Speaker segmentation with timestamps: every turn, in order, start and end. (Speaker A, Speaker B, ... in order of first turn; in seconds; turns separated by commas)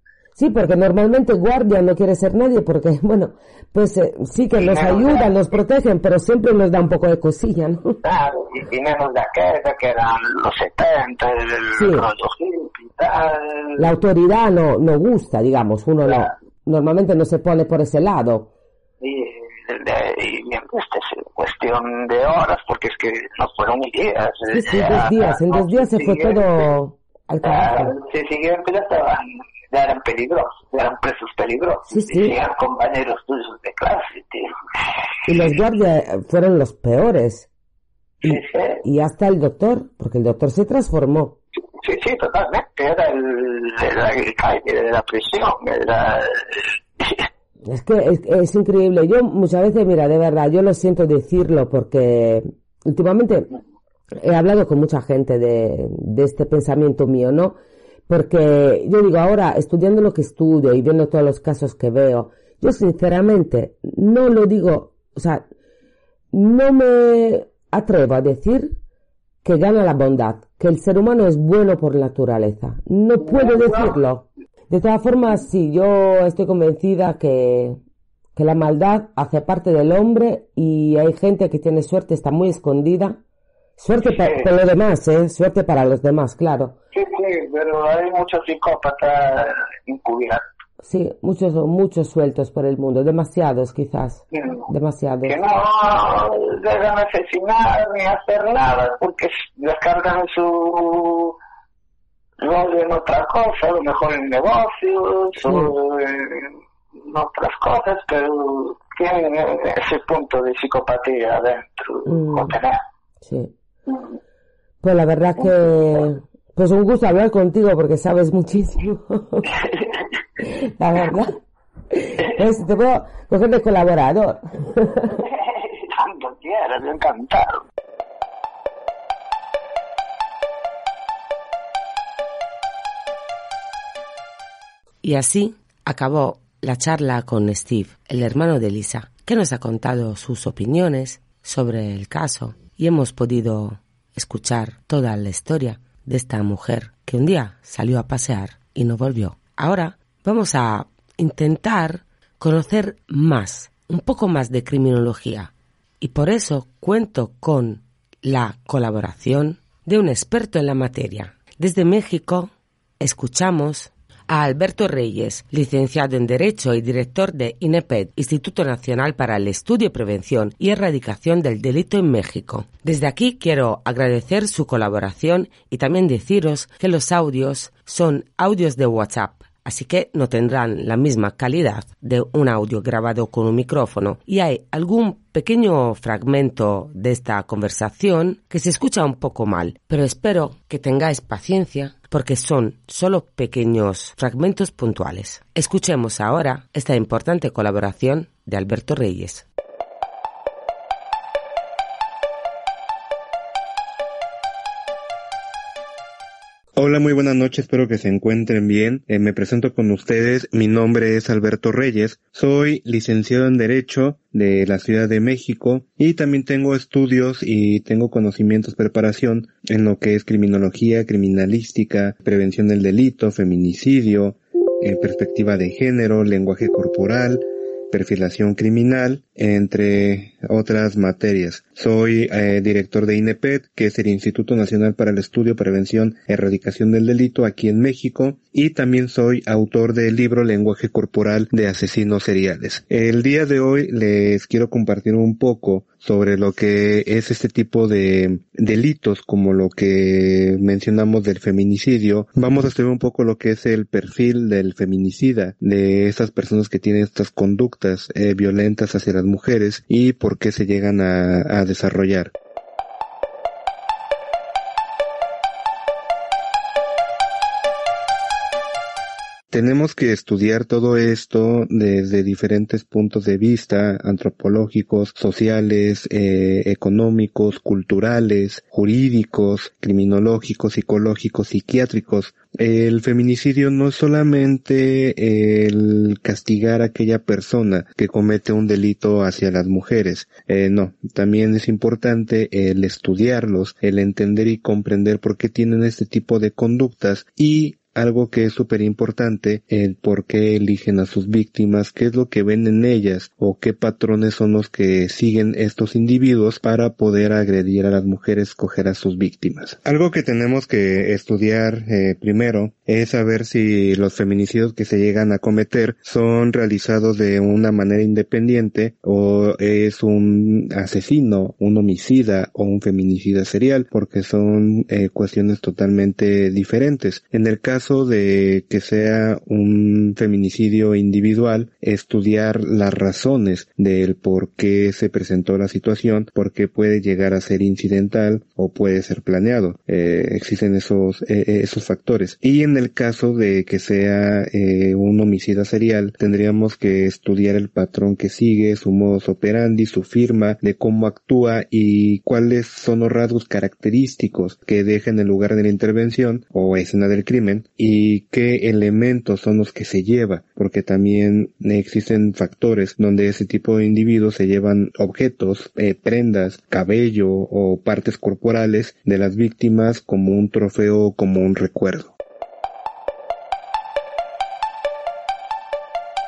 Speaker A: 0.4-8.0, Speaker B: 4.6-5.3, Speaker B: 8.0-13.9, Speaker A: 11.7-12.1, Speaker A: 13.8-18.5, Speaker B: 16.1-16.3, Speaker B: 19.0-26.6, Speaker A: 24.5-27.9, Speaker B: 27.4-34.5, Speaker A: 31.9-32.3, Speaker A: 35.3-37.5, Speaker B: 38.2-38.8, Speaker A: 38.2-41.4, Speaker B: 41.8-47.3, Speaker A: 47.6-53.5, Speaker A: 54.1-57.6, Speaker A: 58.1-65.5, Speaker A: 66.3-68.8, Speaker A: 69.4-77.8, Speaker B: 73.2-74.0, Speaker A: 78.4-83.2, Speaker A: 83.8-86.7, Speaker B: 84.1-84.5, Speaker B: 86.9-90.4, Speaker A: 90.8-95.4, Speaker B: 94.3-94.7, Speaker B: 95.2-101.4, Speaker B: 102.4-112.8, Speaker A: 105.5-105.7, Speaker A: 112.1-112.5, Speaker A: 113.2-113.5, Speaker A: 114.8-119.5, Speaker B: 119.6-120.0, Speaker A: 120.4-121.4, Speaker A: 121.9-125.2, Speaker B: 125.2-127.6, Speaker C: 135.0-199.4, Speaker D: 206.8-262.3, Speaker D: 269.5-372.1